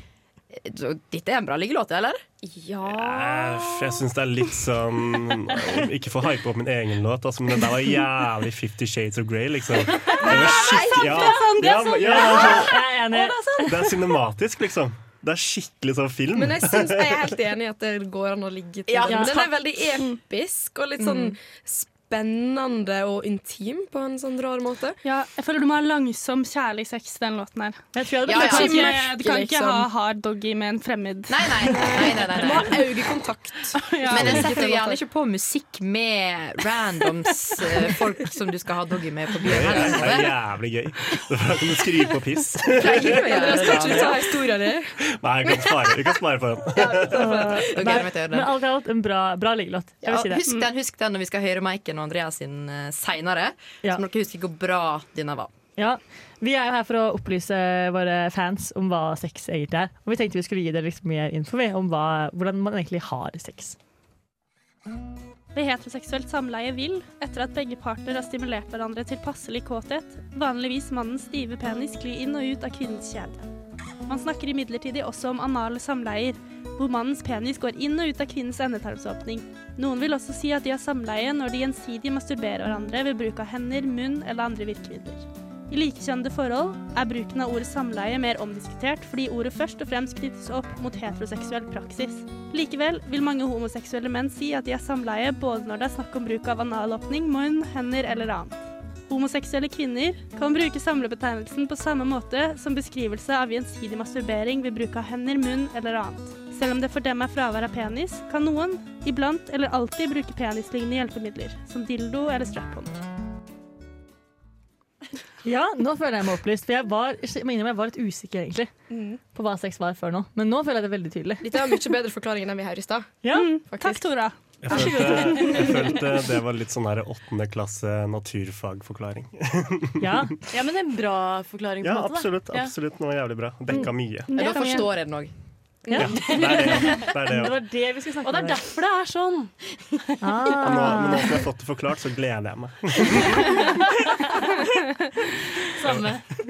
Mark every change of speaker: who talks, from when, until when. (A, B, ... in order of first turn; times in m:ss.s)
0:00.5-0:02.2 A
0:02.4-0:04.0 B
0:02.9-0:12.8 C
0:10.0-0:13.8 B
0:12.0-0:13.9 D
0:13.6-0:17.3 C
0:16.3-0:25.0 B
0:18.9-0:19.5 A
0:19.0-0:19.4 D
0:21.0-0:21.3 A
0:25.0-0:31.7 E
0:27.9-0:28.9 D
0:28.2-0:28.9 A
0:28.4-0:29.9 B
0:31.3-0:40.4 A
0:31.8-0:35.0 B
0:39.4-0:44.1 C
0:42.7-0:44.9 B
0:42.8-0:44.2 A
0:45.1-0:47.5 C
0:45.5-0:45.8 B
0:46.8-0:47.8 B
0:47.1-0:50.4 D
0:47.4-0:48.5 A
0:50.0-0:55.5 A
0:55.8-1:03.8 D
1:05.5-1:13.4 E
1:14.0-1:38.5 E
1:39.1-1:52.9 E
1:55.4-1:58.7 D
1:58.9-1:59.2 B
1:59.3-2:01.5 D
2:01.4-2:03.2 B
2:03.2-2:03.5 D
2:03.3-2:05.8 E
2:03.7-2:04.0 B
2:04.6-2:10.2 C
2:10.0-2:10.3 D
2:10.5-2:12.7 F
2:11.8-2:14.3 C
2:14.3-2:14.9 E
2:14.3-2:15.3 A
2:15.9-2:17.6 C
2:16.2-2:17.1 F
2:17.3-2:18.6 D
2:18.2-2:19.5 F
2:20.2-2:21.2 D
2:20.6-2:23.9 C
2:25.8-2:26.2 F
2:25.8-2:26.1 C